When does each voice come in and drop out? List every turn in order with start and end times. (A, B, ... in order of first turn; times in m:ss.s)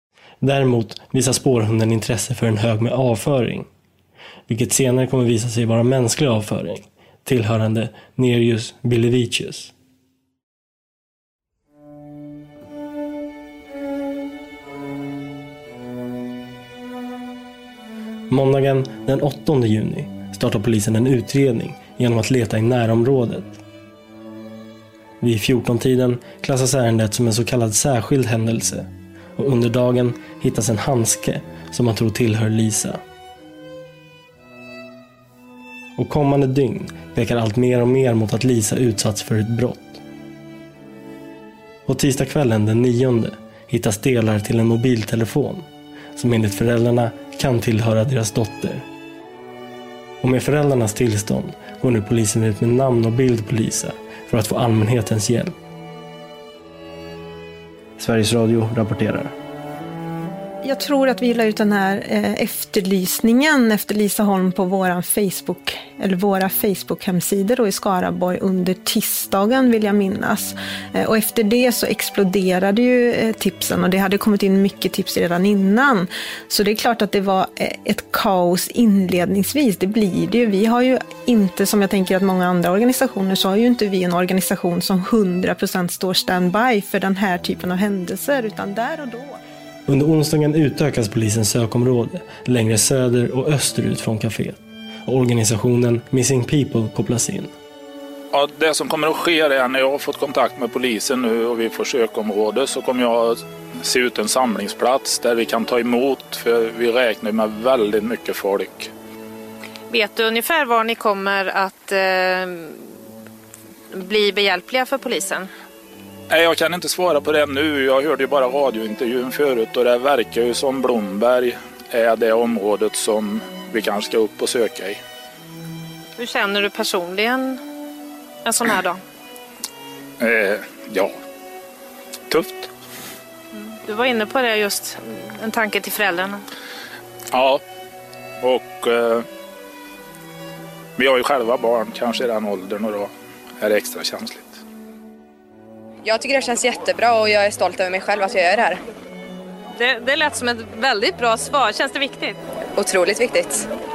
0:00.4-0:03.7 A
0:04.5-0:09.7 A
0:18.3-0:23.6 A
0:25.2-0:33.0 A
0:36.0-0:40.0 A
0:41.9-0:45.6 A
0:46.2-0:48.8 A
0:50.2-0:55.5 A
0:58.0-0:59.3 A
1:00.7-1:10.5 B
1:11.0-1:29.3 B
1:29.9-1:37.5 A
1:38.3-1:48.9 C
1:49.9-1:52.9 D
1:53.9-1:55.5 D
1:56.3-2:05.0 C
2:06.2-2:07.6 D
2:08.4-2:09.0 D
2:10.2-2:11.2 C
2:12.3-2:12.7 C
2:13.5-2:16.4 D
2:17.3-2:17.6 C
2:18.4-2:19.3 C
2:21.0-2:24.6 C
2:26.0-2:28.8 E
2:29.8-2:32.4 D
2:32.8-2:33.7 E